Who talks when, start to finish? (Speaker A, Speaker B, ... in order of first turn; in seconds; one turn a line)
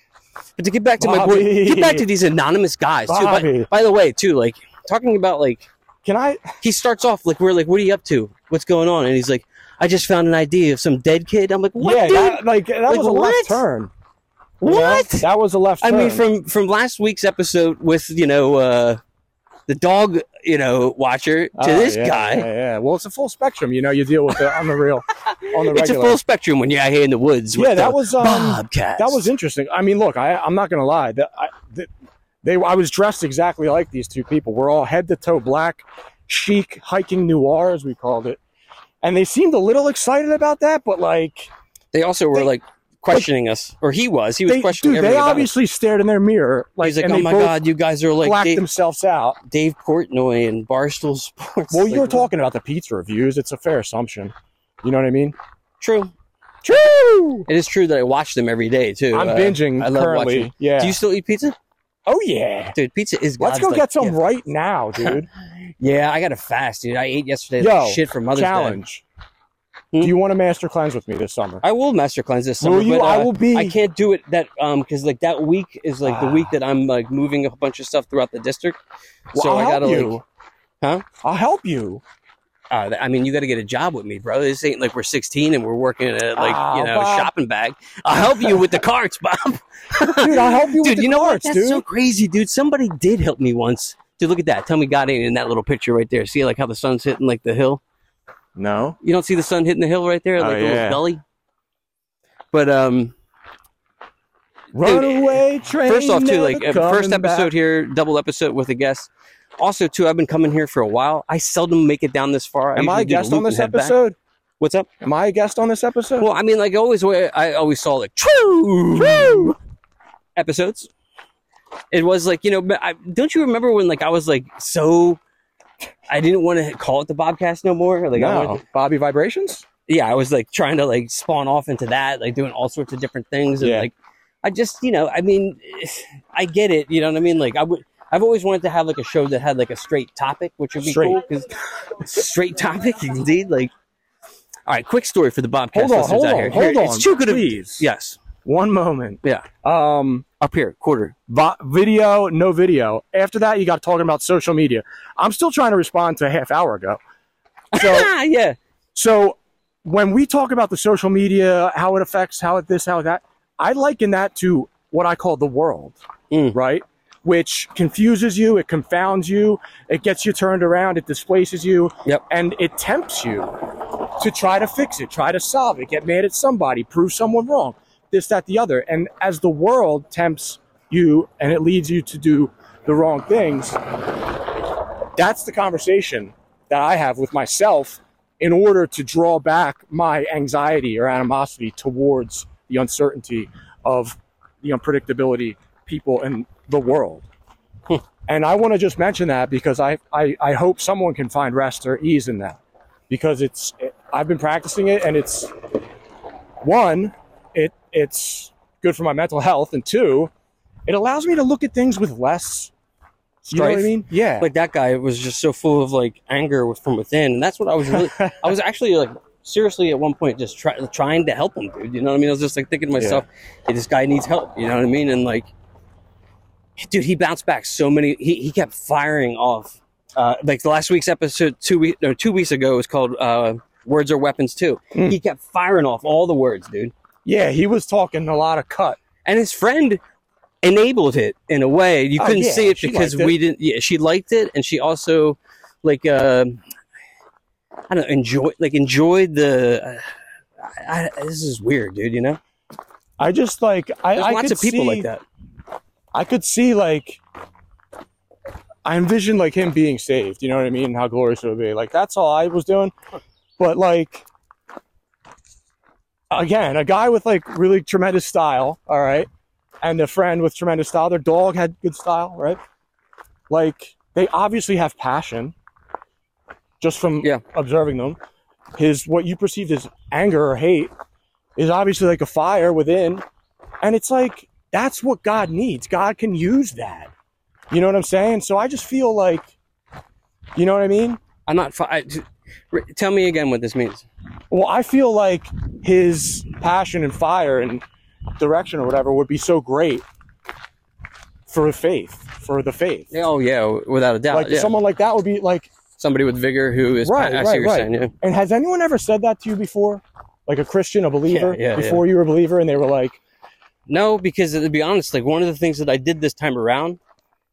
Speaker A: 0.6-5.7
Speaker B: 1.0-2.1
Speaker B: 3.1-3.7
Speaker B: 6.0-6.5
Speaker A: 6.6-13.6
Speaker B: 11.8-13.9
Speaker A: 14.6-15.3
Speaker B: 14.6-16.2
Speaker A: 15.8-19.0
Speaker A: 19.7-22.5
Speaker B: 21.6-26.2
Speaker A: 25.3-29.3
Speaker B: 27.5-31.9
Speaker B: 32.4-38.4
Speaker B: 39.0-41.5
Speaker A: 41.9-45.5
Speaker B: 44.5-47.6
Speaker A: 46.8-48.6
Speaker B: 48.2-49.4
Speaker A: 49.5-52.3
Speaker B: 51.7-55.4
Speaker A: 55.8-56.1
Speaker B: 56.6-57.5
Speaker A: 57.5-61.5
Speaker B: 59.1-61.0
Speaker B: 62.0-62.8
Speaker A: 62.7-64.2
Speaker B: 63.4-65.3
Speaker A: 65.8-68.8
Speaker B: 67.6-69.0
Speaker B: 70.0-71.6
Speaker A: 71.6-78.8
Speaker B: 72.6-73.8
Speaker B: 76.0-76.5
Speaker B: 79.3-80.2
Speaker A: 79.3-80.2
Speaker A: 80.8-81.0
Speaker B: 81.2-82.0
Speaker A: 82.7-97.8
Speaker B: 86.3-87.3
Speaker B: 88.4-88.7
Speaker B: 90.1-91.8
Speaker B: 98.5-99.0
Speaker A: 99.0-101.2
Speaker B: 100.4-101.0
Speaker A: 102.5-103.1
Speaker B: 104.7-107.5
Speaker A: 104.8-114.0
Speaker B: 112.7-114.2
Speaker A: 114.6-114.9
Speaker B: 115.0-116.3
Speaker A: 116.2-119.6
Speaker B: 118.9-119.5
Speaker A: 120.3-120.9
Speaker A: 121.9-125.2
Speaker A: 126.1-128.6
Speaker B: 128.1-129.7
Speaker A: 129.9-143.7
Speaker B: 133.6-133.9
Speaker B: 140.8-141.2
Speaker A: 144.7-148.2
Speaker B: 145.7-147.9
Speaker B: 148.4-150.2
Speaker A: 150.4-151.2
Speaker B: 151.3-157.0
Speaker B: 157.7-158.1
Speaker A: 157.7-158.6
Speaker B: 158.9-166.0
Speaker A: 166.3-166.6
Speaker B: 166.5-173.5
Speaker B: 174.2-183.8
Speaker B: 185.2-197.3
Speaker B: 198.3-205.5
Speaker B: 206.6-210.3
Speaker B: 210.8-212.7
Speaker B: 213.4-214.5
Speaker A: 213.5-225.5
Speaker B: 217.9-218.5
Speaker B: 222.9-223.2
Speaker A: 226.8-236.9
Speaker B: 237.2-239.0
Speaker A: 239.2-240.0
Speaker A: 240.6-246.6
Speaker B: 242.2-243.3
Speaker A: 247.9-250.0
Speaker A: 250.6-252.4
Speaker B: 253.2-255.1
Speaker A: 254.2-255.2
Speaker B: 256.1-257.2
Speaker B: 258.8-262.9
Speaker B: 263.6-264.3
Speaker B: 266.3-269.3
Speaker B: 269.8-272.6
Speaker B: 273.5-275.5
Speaker B: 276.8-278.2
Speaker B: 278.8-280.9
Speaker B: 281.6-283.2
Speaker B: 283.8-287.1
Speaker B: 287.7-289.5
Speaker B: 290.5-291.2
Speaker A: 291.4-294.1
Speaker B: 294.5-297.8
Speaker B: 298.4-300.0
Speaker B: 301.5-303.1
Speaker A: 303.1-304.8
Speaker B: 304.3-305.7
Speaker A: 306.0-308.1
Speaker B: 307.0-313.2
Speaker A: 311.3-312.0
Speaker A: 313.9-317.0